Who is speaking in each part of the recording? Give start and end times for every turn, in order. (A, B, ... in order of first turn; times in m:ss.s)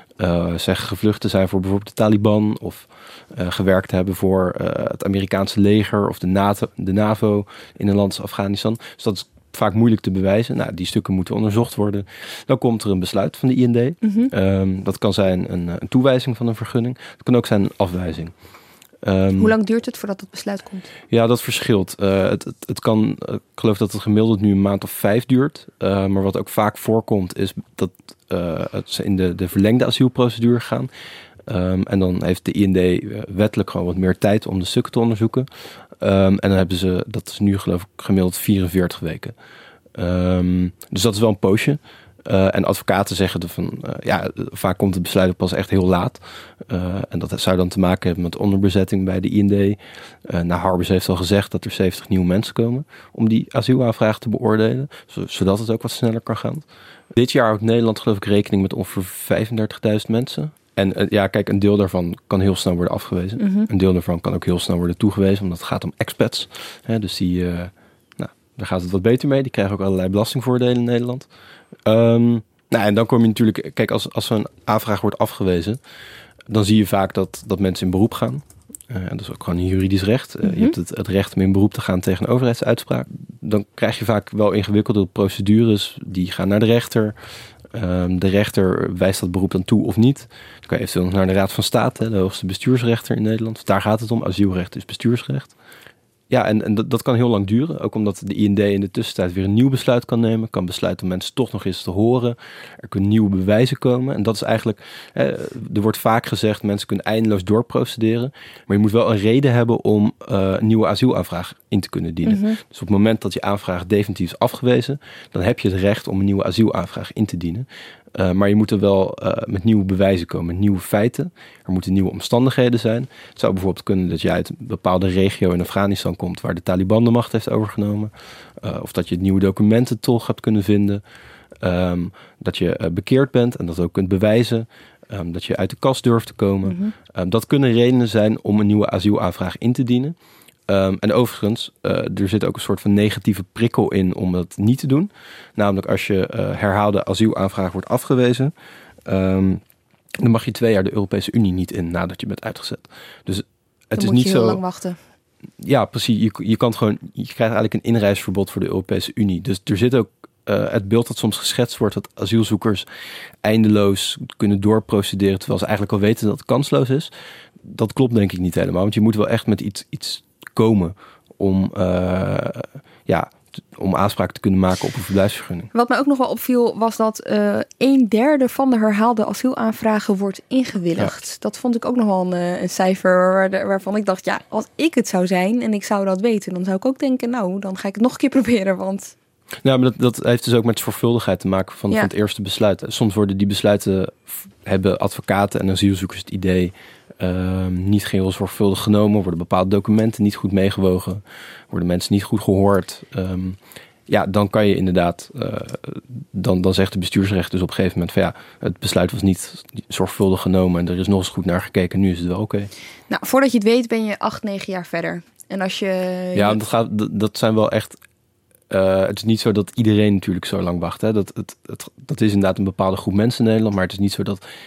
0:00.2-0:18.3 A
0:14.0-0:14.3 B
0:19.0-0:19.5 A
0:19.4-0:20.9 B
0:21.1-0:30.9 A
0:31.5-0:35.5 A
0:36.0-0:39.3 A
0:40.0-0:56.6 A
0:57.1-1:11.3 A
1:03.4-1:03.7 B
1:11.8-1:15.8 A
1:16.5-1:27.1 A
1:20.4-1:20.7 B
1:27.7-1:35.5 A
1:36.3-2:11.0 A
1:52.2-1:52.6 B
2:11.6-2:20.1 A
2:16.6-2:16.9 B
2:20.7-2:28.5 A
2:29.0-2:29.6 A
2:30.2-2:34.6 A
2:34.0-2:35.0 B
2:35.6-2:42.8 A
2:43.4-2:47.1 A
2:47.6-2:55.7 A
2:55.7-3:09.1 B
3:09.6-3:32.7 A
3:33.1-3:36.6 B
3:36.3-3:38.0 A
3:38.7-3:44.4 A